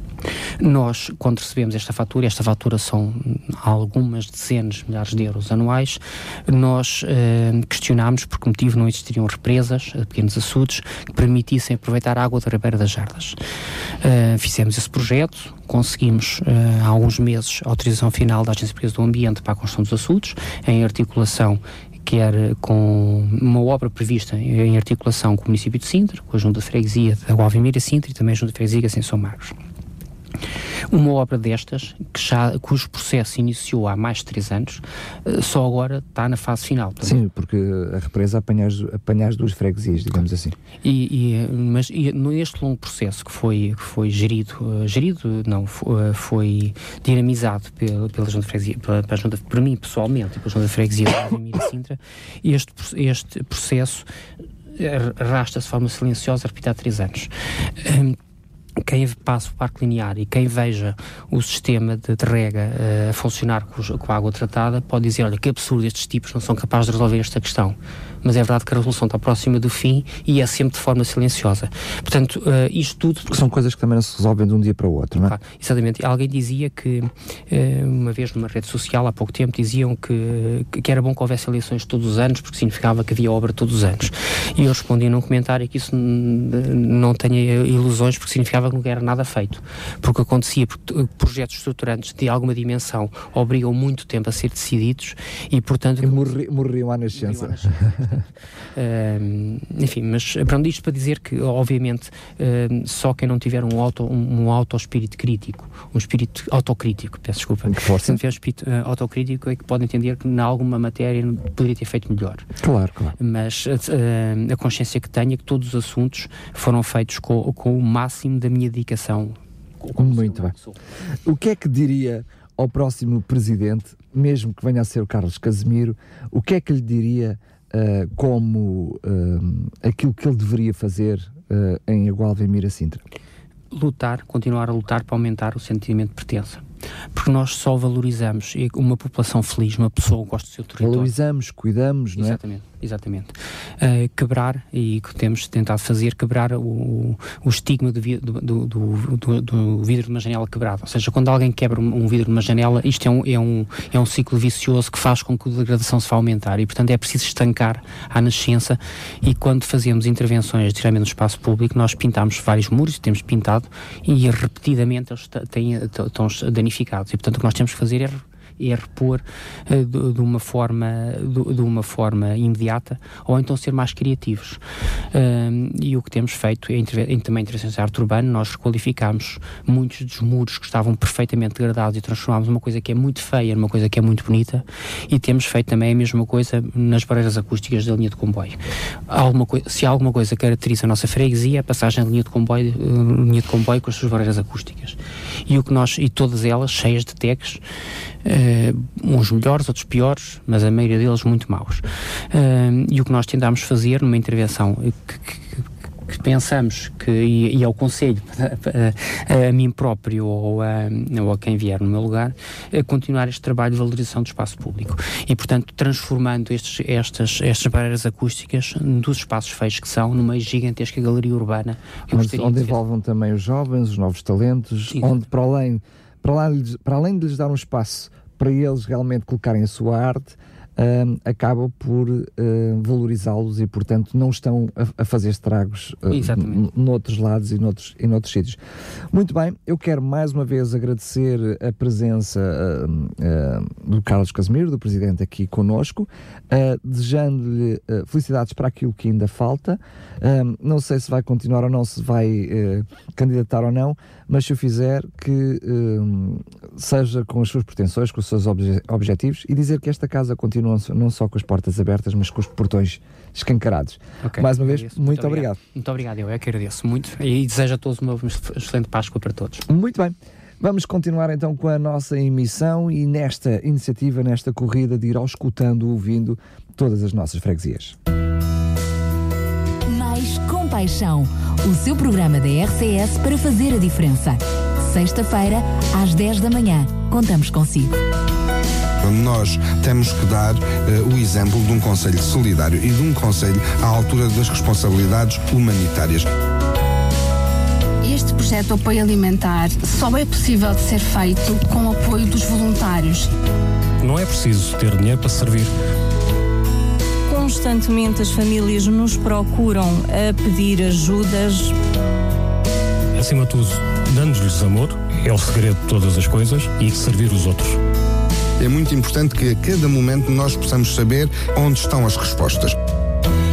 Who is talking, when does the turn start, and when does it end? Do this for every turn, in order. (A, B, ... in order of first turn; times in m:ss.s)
0:00.6-0:13.4 A
0:14.0-0:29.6 A
0:30.9-0:37.2 A
0:37.0-0:40.6 B
0:40.8-0:54.1 A
0:54.7-0:58.2 A
0:58.8-1:13.4 A
1:13.3-1:15.4 B
1:15.2-1:36.3 A
1:36.0-1:38.2 B
1:37.1-1:52.4 A
1:47.6-1:48.2 B
1:52.6-1:53.2 B
1:53.2-2:00.8 A
2:00.0-2:00.5 B
2:01.2-2:13.0 B
2:13.7-2:16.6 A
2:17.1-2:21.1 A
2:20.8-2:22.4 B
2:22.2-2:54.6 A
2:55.1-3:17.6 A
3:18.2-3:42.8 A
3:42.1-3:58.6 B
3:44.9-3:45.2 A
3:56.1-3:56.7 A
3:59.1-4:25.6 B
4:24.2-4:29.6 A
4:29.7-4:38.0 B
4:39.9-4:47.9 C
4:49.0-4:56.3 D
4:58.0-5:03.3 E
5:04.0-5:05.7 F
5:07.3-5:11.8 G
5:13.2-5:17.8 F
5:18.6-5:22.8 D